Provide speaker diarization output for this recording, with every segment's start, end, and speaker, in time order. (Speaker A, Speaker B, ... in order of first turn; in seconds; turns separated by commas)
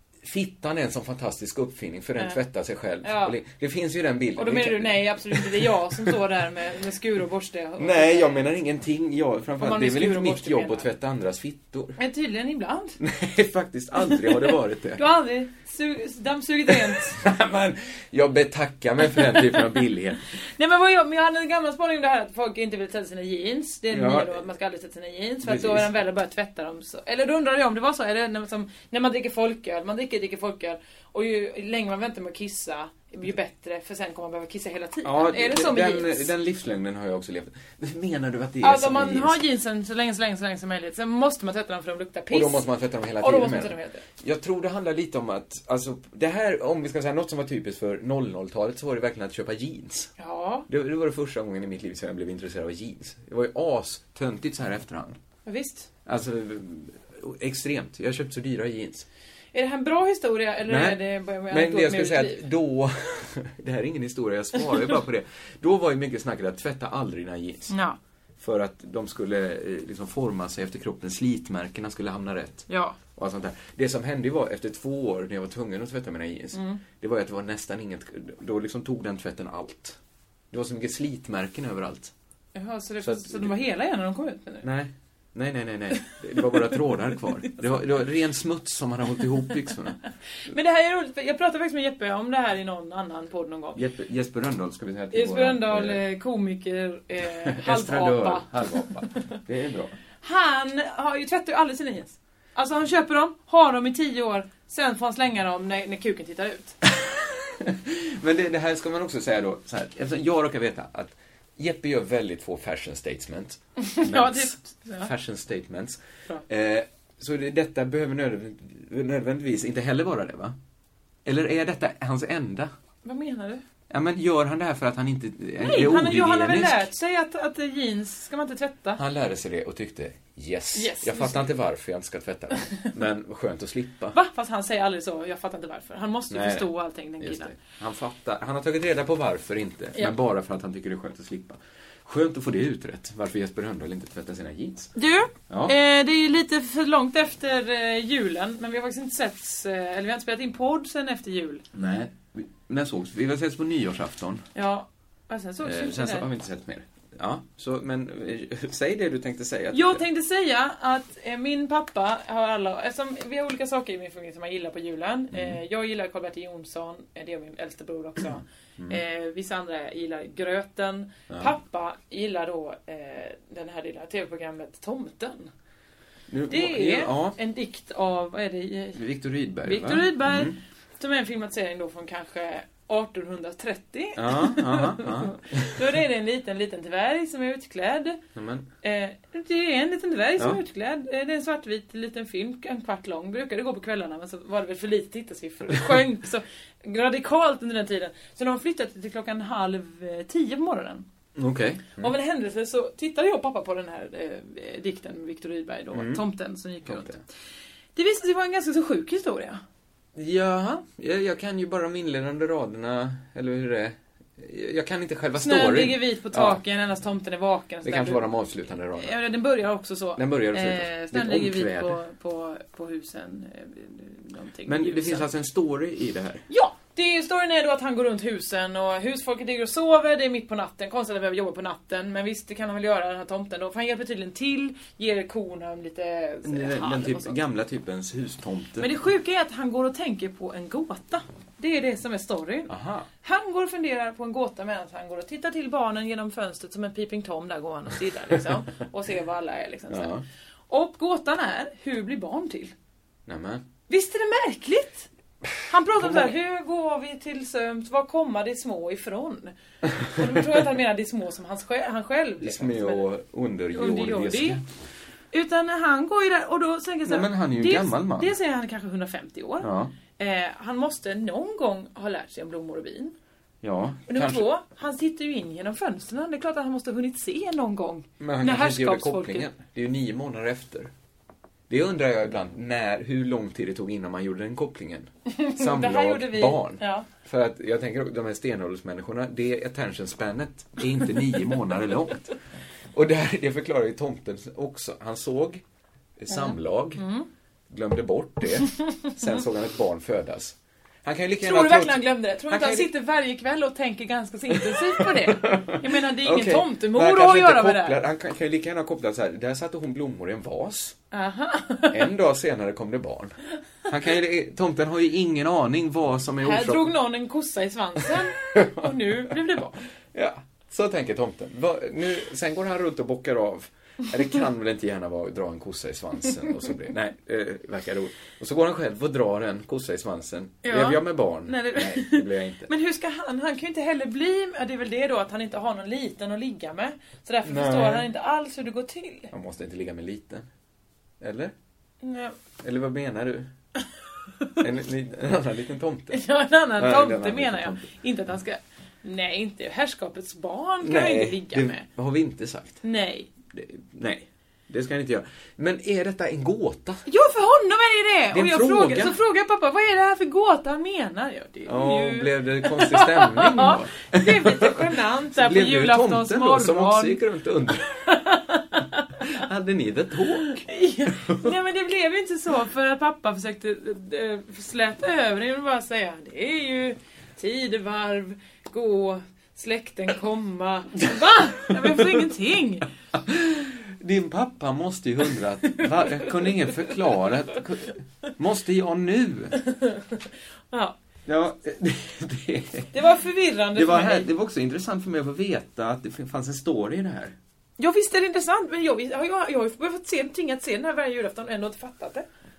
Speaker A: 0.2-6.2, Speaker B: 3.0-3.4, Speaker B: 4.4-8.5, Speaker A: 7.8-12.0, Speaker B: 9.6-10.9, Speaker B: 12.0-13.0, Speaker A: 13.0-15.0, Speaker B: 14.0-17.2, Speaker A: 16.7-20.2, Speaker B: 19.2-19.5, Speaker B: 20.3-36.3, Speaker A: 23.9-24.4, Speaker A: 25.4-25.9, Speaker A: 35.0-39.4, Speaker B: 38.6-42.6, Speaker A: 42.3-50.1, Speaker B: 43.2-44.0, Speaker B: 50.2-50.6, Speaker A: 50.7-55.2, Speaker B: 55.5-55.9, Speaker A: 56.0-59.1, Speaker B: 59.5-62.4, Speaker A: 60.6-67.7, Speaker B: 67.7-68.0, Speaker A: 68.4-80.0, Speaker B: 72.7-73.0, Speaker B: 76.5-76.8, Speaker A: 80.5-82.1, Speaker B: 82.5-84.7, Speaker A: 83.0-83.5, Speaker A: 84.6-90.0, Speaker B: 90.4-93.8, Speaker A: 93.7-96.0, Speaker B: 95.1-98.5, Speaker A: 97.2-99.9, Speaker B: 99.1-99.4, Speaker B: 100.2-106.8, Speaker A: 106.9-120.5, Speaker B: 113.8-115.1, Speaker A: 121.2-122.7, Speaker B: 123.0-123.6, Speaker A: 123.9-126.9, Speaker B: 125.6-129.0, Speaker A: 129.0-134.2, Speaker B: 130.7-131.5, Speaker B: 134.1-137.5, Speaker A: 136.3-144.9, Speaker B: 144.9-151.6, Speaker A: 145.5-145.7, Speaker A: 151.7-154.5, Speaker B: 154.5-156.3, Speaker A: 155.6-160.0, Speaker B: 159.7-175.5, Speaker A: 165.3-165.6, Speaker A: 168.3-169.0, Speaker A: 176.3-177.3, Speaker B: 176.5-179.0, Speaker A: 178.9-180.6, Speaker B: 179.6-188.2, Speaker A: 184.2-185.8, Speaker A: 188.3-188.7, Speaker B: 188.8-201.1, Speaker A: 201.3-202.1, Speaker B: 201.9-207.2, Speaker A: 205.9-206.2, Speaker A: 206.8-207.2, Speaker B: 207.9-209.6, Speaker A: 210.1-216.6, Speaker B: 215.4-218.3, Speaker A: 217.8-219.2, Speaker B: 219.0-225.3, Speaker A: 220.2-222.0, Speaker A: 224.7-226.4, Speaker B: 226.5-237.4, Speaker A: 236.4-238.9, Speaker B: 238.8-250.1, Speaker A: 242.7-243.1, Speaker A: 249.9-250.2, Speaker B: 250.7-252.7, Speaker A: 253.3-253.6, Speaker B: 253.9-255.1, Speaker B: 255.7-259.5, Speaker A: 256.0-256.4, Speaker B: 260.1-263.1, Speaker A: 262.4-264.6, Speaker B: 263.7-264.6, Speaker B: 265.3-273.1, Speaker A: 267.0-268.3, Speaker A: 269.6-269.9, Speaker A: 273.6-274.4, Speaker B: 274.1-279.5, Speaker A: 278.2-280.9, Speaker A: 281.7-292.3, Speaker B: 285.3-287.1, Speaker A: 292.9-295.6, Speaker A: 296.2-297.0, Speaker B: 296.3-297.3, Speaker A: 297.7-302.9, Speaker B: 301.4-308.0, Speaker A: 304.5-310.9, Speaker B: 311.1-312.0, Speaker A: 311.9-313.3, Speaker A: 313.9-316.9, Speaker B: 316.4-319.8, Speaker A: 318.4-318.9, Speaker A: 320.1-332.7, Speaker B: 330.6-339.3, Speaker A: 337.4-338.1, Speaker A: 339.3-340.5, Speaker A: 341.2-341.5, Speaker B: 342.0-342.3, Speaker A: 342.6-343.5, Speaker A: 344.6-346.2, Speaker B: 346.1-351.9, Speaker A: 346.8-347.9, Speaker A: 350.8-352.8, Speaker B: 352.8-353.3, Speaker A: 353.5-357.0, Speaker B: 357.1-367.2, Speaker A: 358.3-359.2, Speaker A: 361.6-368.1, Speaker B: 368.1-369.0, Speaker A: 369.2-371.5, Speaker B: 370.6-382.9, Speaker A: 381.8-382.2, Speaker A: 383.1-389.6, Speaker B: 390.7-390.9, Speaker A: 391.2-392.9, Speaker B: 392.9-394.3, Speaker A: 393.7-397.4, Speaker B: 397.8-402.2